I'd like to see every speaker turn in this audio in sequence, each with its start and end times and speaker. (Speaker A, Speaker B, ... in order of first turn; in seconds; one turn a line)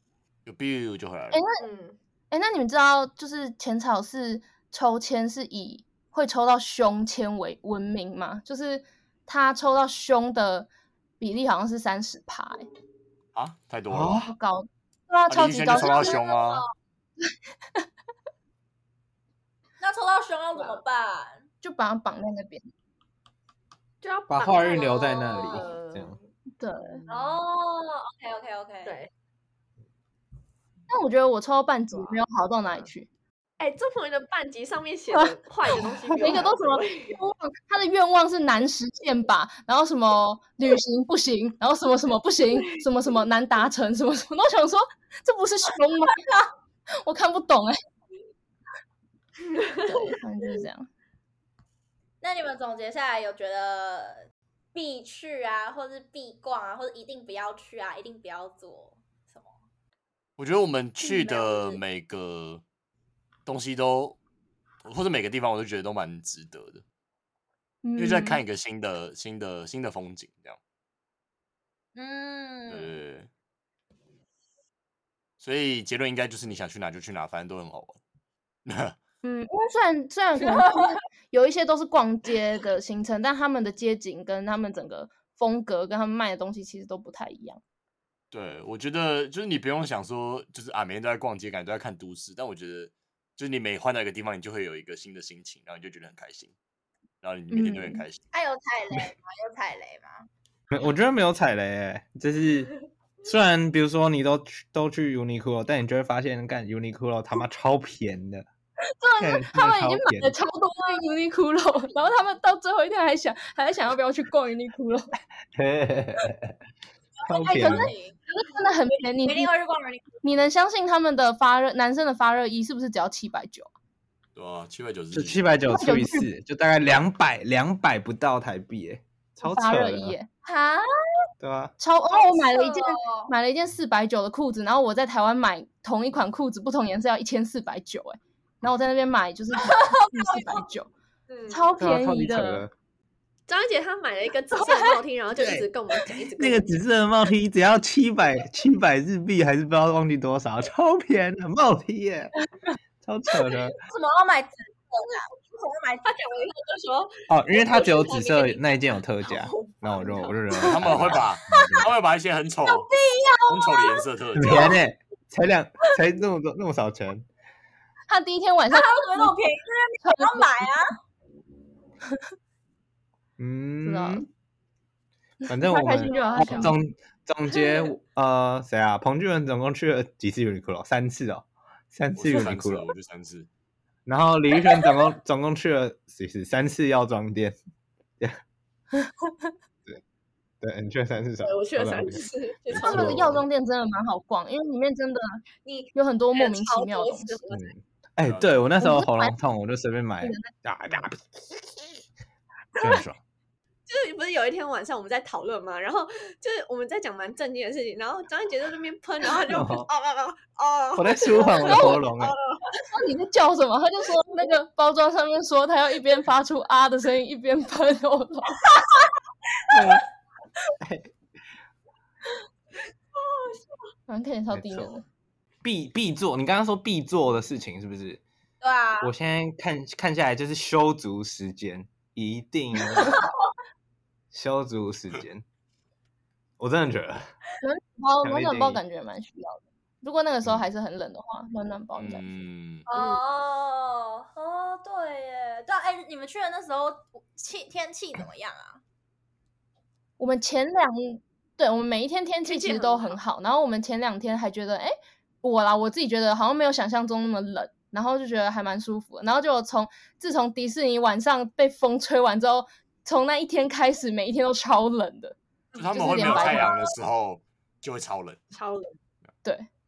Speaker A: 0.5-1.4
Speaker B: 1.3-1.6
Speaker C: 1.6-2.0
Speaker B: 2.3-10.7
Speaker B: 11.2-12.7
Speaker A: 13.3-14.2
Speaker D: 13.9-14.3
Speaker B: 14.2-16.2
Speaker A: 15.3-16.6
Speaker E: 15.7-16.7
Speaker E: 19.8-21.4
Speaker B: 21.6-22.6
Speaker C: 24.0-26.3
Speaker D: 24.3-26.2
Speaker E: 24.6-25.6
Speaker B: 26.6-27.0
Speaker C: 26.9-27.4
Speaker E: 27.1-29.0
Speaker C: 28.8-29.1
Speaker B: 30.9-33.1
Speaker C: 31.9-32.9
Speaker C: 33.6-37.2
Speaker B: 35.1-46.2
Speaker C: 42.6-42.9
Speaker E: 46.1-46.5
Speaker B: 47.0-47.8
Speaker C: 49.5-50.2
Speaker B: 49.9-50.9
Speaker E: 52.2-59.5
Speaker A: 60.4-62.6
Speaker E: 61.0-61.8
Speaker A: 63.5-64.2
Speaker A: 64.8-66.8
Speaker B: 67.8-68.4
Speaker A: 68.0-70.6
Speaker E: 72.0-72.9
Speaker A: 72.7-73.3
Speaker A: 75.4-78.0
Speaker A: 78.7-79.0
Speaker B: 79.2-87.6
Speaker E: 80.4-80.9
Speaker A: 88.3-96.5
Speaker A: 97.2-98.2
Speaker B: 97.5-98.0
Speaker E: 98.3-100.3
Speaker D: 100.7-102.7
Speaker D: 103.2-108.5
Speaker B: 108.9-115.2
Speaker D: 109.2-110.3
Speaker D: 115.5-116.6
Speaker E: 117.2-118.2
Speaker D: 117.2-117.9
Speaker B: 117.5-119.5
Speaker E: 119.2-120.2
Speaker B: 120.2-123.7
Speaker A: 124.4-125.5
Speaker D: 125.1-130.2
Speaker B: 125.7-126.3
Speaker B: 129.4-130.3
Speaker E: 130.4-131.3
Speaker D: 131.4-131.7
Speaker B: 131.8-140.9
Speaker E: 132.1-133.3
Speaker E: 139.6-140.6
Speaker C: 141.3-141.7
Speaker B: 141.5-142.7
Speaker D: 141.8-142.7
Speaker C: 143.5-146.7
Speaker D: 145.4-152.3
Speaker D: 153.0-153.8
Speaker E: 153.8-156.2
Speaker C: 156.0-160.9
Speaker D: 157.3-161.8
Speaker A: 160.6-162.9
Speaker E: 162.7-164.8
Speaker A: 163.5-164.8
Speaker D: 164.4-167.3
Speaker B: 168.1-169.4
Speaker E: 168.7-170.9
Speaker B: 170.0-170.7
Speaker D: 173.4-174.3
Speaker B: 173.8-174.3
Speaker B: 175.5-176.8
Speaker D: 175.5-182.9
Speaker A: 182.2-183.5
Speaker D: 184.1-187.6
Speaker B: 189.0-189.5
Speaker D: 190.6-193.4
Speaker C: 191.4-193.4
Speaker B: 192.8-195.4
Speaker C: 195.7-197.7
Speaker B: 195.9-197.4
Speaker D: 197.5-202.0
Speaker A: 198.2-198.6
Speaker B: 198.8-199.3
Speaker B: 200.2-200.5
Speaker D: 202.8-203.2
Speaker C: 203.9-212.9
Speaker D: 209.5-209.9
Speaker D: 211.0-212.3
Speaker B: 211.7-212.0
Speaker B: 212.9-218.7
Speaker D: 219.7-220.1
Speaker D: 220.8-221.1
Speaker C: 223.2-223.8
Speaker B: 224.1-225.1
Speaker D: 224.5-225.0
Speaker D: 225.6-228.2
Speaker E: 228.6-229.1
Speaker D: 229.0-233.2
Speaker D: 234.3-235.4
Speaker D: 236.6-237.3
Speaker B: 237.6-242.5
Speaker D: 238.2-238.8
Speaker A: 242.0-242.9
Speaker E: 242.9-248.8
Speaker B: 250.2-265.4
Speaker E: 252.5-253.0
Speaker C: 252.5-253.1
Speaker C: 265.7-266.7
Speaker A: 265.8-268.4
Speaker B: 265.9-266.8
Speaker C: 268.5-269.0